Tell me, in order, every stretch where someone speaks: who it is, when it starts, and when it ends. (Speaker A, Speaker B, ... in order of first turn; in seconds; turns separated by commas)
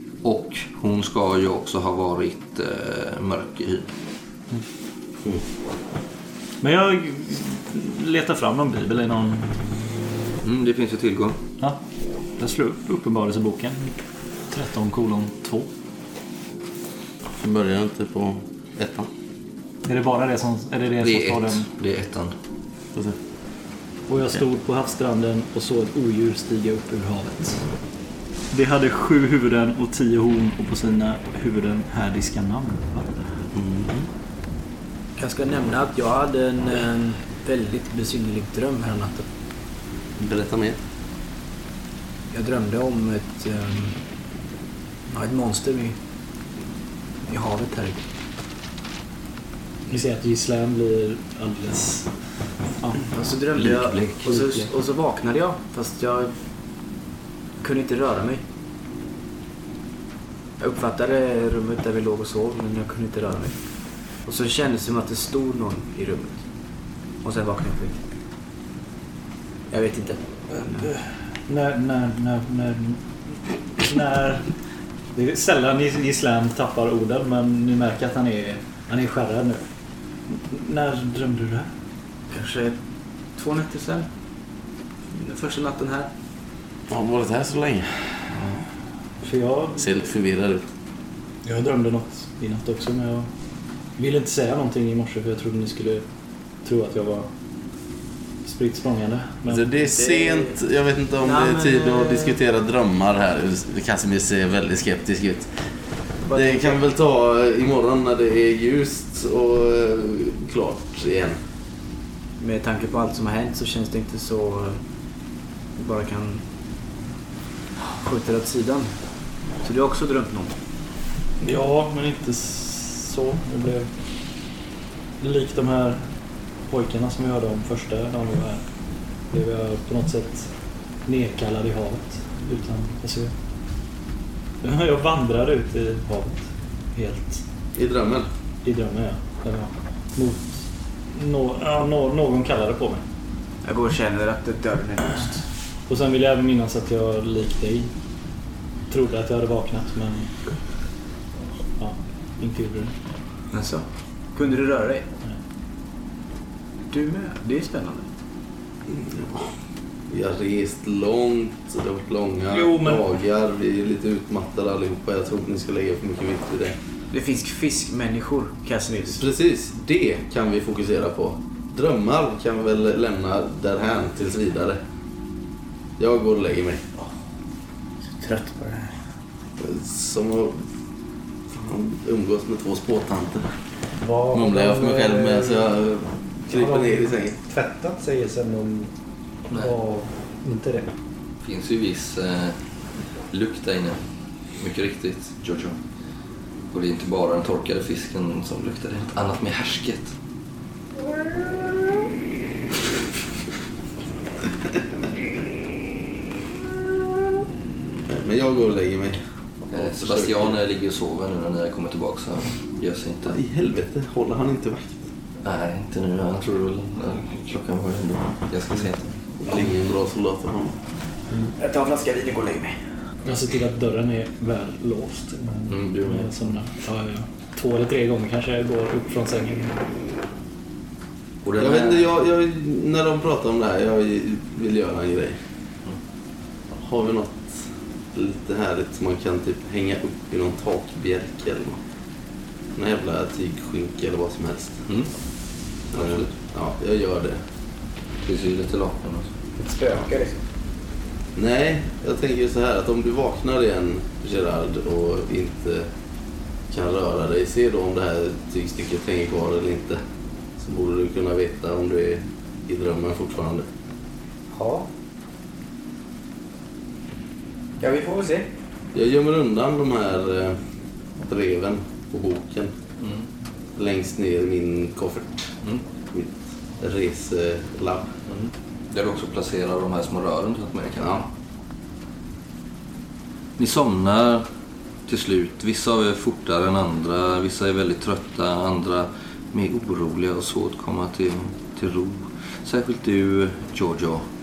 Speaker A: 0.2-3.9, Speaker B: 6.6-10.1, Speaker A: 10.4-11.4, Speaker B: 12.4-14.0, Speaker B: 14.5-15.7, Speaker C: 17.3-19.1, Speaker B: 19.8-21.7, Speaker A: 21.0-22.3, Speaker B: 24.1-27.7, Speaker B: 28.5-33.2, Speaker C: 33.5-34.1, Speaker D: 35.1-39.3, Speaker C: 40.1-40.8, Speaker D: 42.3-44.0, Speaker D: 45.1-46.0, Speaker D: 47.2-48.0, Speaker B: 49.9-53.1, Speaker D: 53.1-56.4, Speaker A: 53.5-54.7, Speaker D: 57.6-58.4, Speaker D: 60.6-68.0, Speaker D: 69.7-70.9, Speaker B: 70.5-74.5, Speaker B: 75.1-79.7, Speaker B: 80.3-81.7, Speaker D: 82.3-84.5, Speaker D: 85.1-86.1, Speaker C: 86.9-88.3, Speaker B: 89.2-90.0, Speaker C: 89.8-90.7, Speaker B: 91.4-93.3, Speaker B: 93.9-96.0, Speaker B: 96.6-97.3, Speaker B: 98.4-99.7, Speaker C: 99.5-105.7, Speaker D: 99.9-100.6, Speaker D: 101.2-102.4, Speaker D: 106.2-106.8, Speaker C: 106.3-111.4, Speaker D: 112.4-114.8, Speaker D: 115.7-116.4, Speaker D: 117.9-119.0, Speaker D: 119.5-120.5, Speaker B: 121.4-123.9, Speaker B: 125.2-128.7, Speaker B: 129.2-133.3, Speaker B: 134.6-137.4, Speaker C: 137.7-138.3, Speaker B: 138.6-143.0, Speaker D: 143.6-145.4, Speaker B: 145.9-147.9, Speaker B: 148.9-150.4, Speaker B: 151.8-152.9, Speaker D: 153.5-155.1, Speaker D: 156.9-158.1, Speaker C: 158.8-166.8, Speaker B: 162.5-163.1, Speaker D: 167.1-169.2, Speaker C: 169.1-174.8, Speaker C: 176.0-176.9, Speaker D: 178.0-179.0, Speaker C: 179.6-180.7, Speaker C: 181.5-183.6, Speaker E: 184.0-185.8, Speaker C: 184.3-187.4, Speaker E: 186.5-188.9, Speaker E: 189.5-190.9, Speaker A: 191.4-192.6, Speaker A: 193.3-194.0, Speaker A: 194.5-195.8, Speaker A: 196.7-200.2, Speaker C: 208.1-210.6, Speaker A: 209.7-213.4, Speaker C: 213.3-215.1, Speaker A: 215.4-219.7, Speaker C: 219.4-220.8, Speaker D: 221.5-222.8, Speaker B: 223.2-229.9, Speaker A: 225.7-226.3, Speaker A: 231.4-232.1, Speaker C: 231.6-235.4, Speaker C: 236.7-241.8, Speaker C: 242.7-244.9, Speaker A: 244.8-246.4, Speaker C: 245.9-247.4, Speaker A: 248.2-249.3, Speaker D: 249.6-250.4, Speaker C: 251.3-255.9, Speaker C: 256.7-260.0, Speaker C: 260.6-263.7, Speaker D: 264.5-264.9, Speaker D: 267.8-268.5, Speaker C: 268.9-272.7, Speaker A: 273.0-273.3, Speaker C: 273.7-275.6, Speaker C: 276.1-278.2, Speaker A: 278.2-281.3, Speaker C: 281.0-281.2, Speaker A: 283.6-284.5, Speaker A: 285.1-294.3